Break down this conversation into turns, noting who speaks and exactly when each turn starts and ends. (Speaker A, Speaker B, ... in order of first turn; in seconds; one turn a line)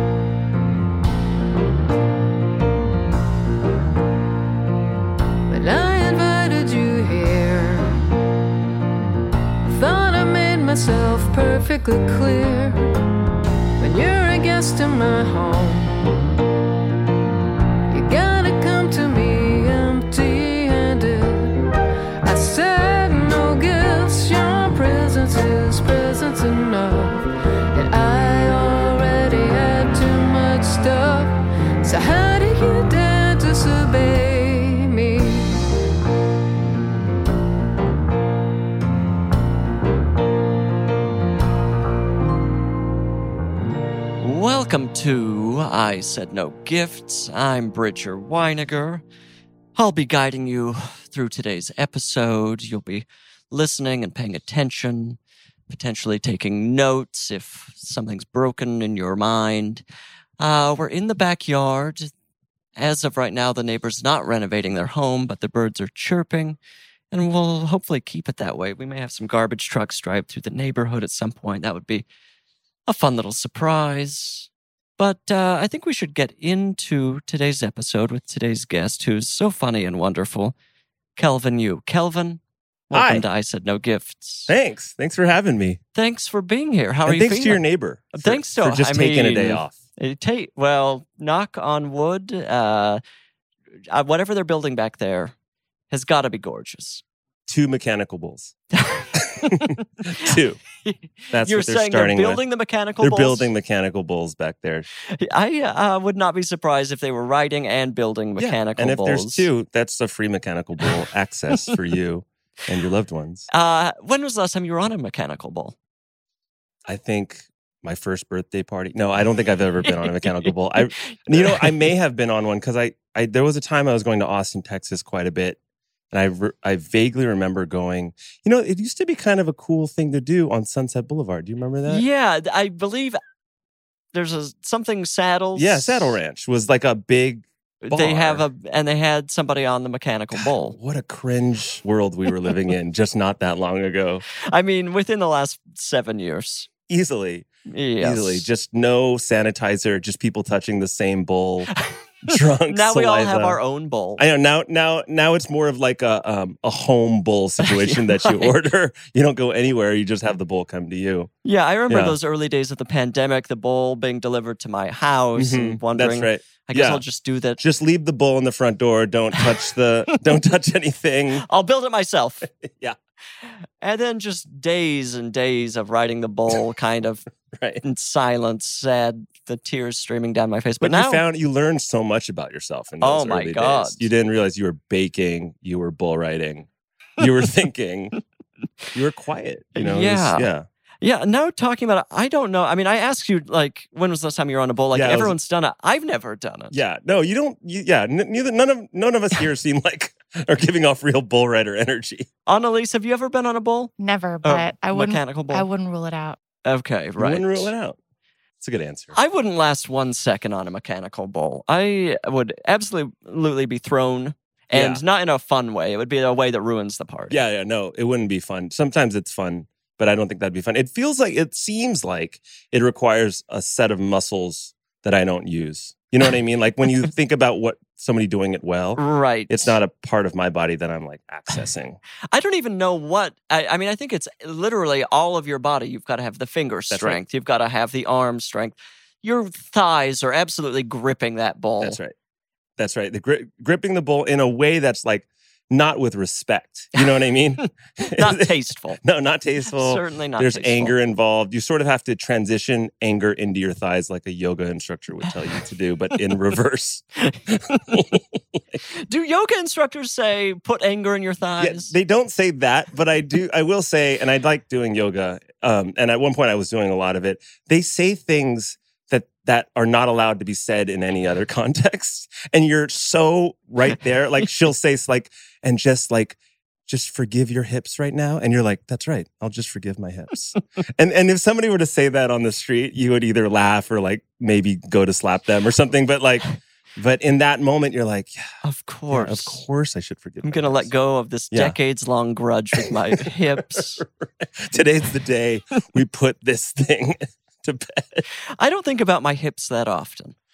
Speaker A: 5.5-8.0
Speaker A: 9.7-12.8
Speaker A: 13.8-16.0
Speaker A: 17.9-21.6
Speaker A: 22.2-35.5
Speaker B: 44.2-49.0
Speaker B: 49.7-59.8
Speaker B: 60.4-62.1
Speaker B: 62.8-66.6
Speaker B: 67.1-72.0
Speaker B: 72.9-80.5
Speaker B: 81.2-84.5
Speaker C: 82.9-83.2
Speaker C: 84.5-85.8
Speaker B: 85.9-93.0
Speaker C: 87.0-89.7
Speaker B: 93.9-95.3
Speaker B: 95.9-97.0
Speaker C: 97.5-98.5
Speaker B: 98.8-103.5
Speaker C: 99.1-100.6
Speaker C: 101.3-102.4
Speaker C: 103.0-104.9
Speaker B: 105.1-109.5
Speaker C: 108.4-113.5
Speaker B: 113.5-115.7
Speaker C: 116.9-125.6
Speaker B: 120.8-121.8
Speaker C: 126.1-132.0
Speaker B: 131.8-133.2
Speaker B: 134.1-136.2
Speaker C: 135.6-138.4
Speaker B: 137.8-140.8
Speaker C: 140.3-144.2
Speaker B: 144.5-146.7
Speaker C: 146.9-147.5
Speaker B: 147.7-148.4
Speaker C: 148.0-151.7
Speaker B: 151.9-154.2
Speaker C: 152.2-153.6
Speaker C: 154.2-161.3
Speaker B: 157.6-158.5
Speaker B: 161.4-167.6
Speaker C: 161.9-162.2
Speaker C: 165.3-167.0
Speaker C: 167.6-171.4
Speaker B: 171.4-172.5
Speaker C: 172.6-172.9
Speaker B: 173.5-177.2
Speaker C: 177.5-177.8
Speaker B: 177.8-181.2
Speaker C: 180.8-186.7
Speaker B: 183.0-184.0
Speaker C: 187.2-188.1
Speaker C: 188.9-190.7
Speaker B: 189.7-190.5
Speaker B: 191.0-196.8
Speaker C: 194.9-195.3
Speaker C: 196.7-202.3
Speaker B: 202.4-205.7
Speaker D: 204.0-206.4
Speaker B: 206.6-207.7
Speaker C: 207.2-208.0
Speaker C: 208.6-209.1
Speaker B: 209.1-217.4
Speaker C: 214.7-215.0
Speaker C: 217.3-232.0
Speaker B: 228.9-229.8
Speaker B: 232.3-242.0
Speaker C: 236.9-237.2
Speaker C: 241.8-242.1
Speaker C: 242.8-248.5
Speaker B: 248.0-249.0
Speaker C: 249.0-258.6
Speaker B: 249.7-250.9
Speaker B: 257.2-258.1
Speaker B: 258.9-261.9
Speaker C: 261.6-288.4
Speaker B: 288.6-289.6
Speaker C: 289.1-290.9
Speaker B: 290.4-294.0
Speaker C: 292.8-298.2
Speaker B: 298.6-300.4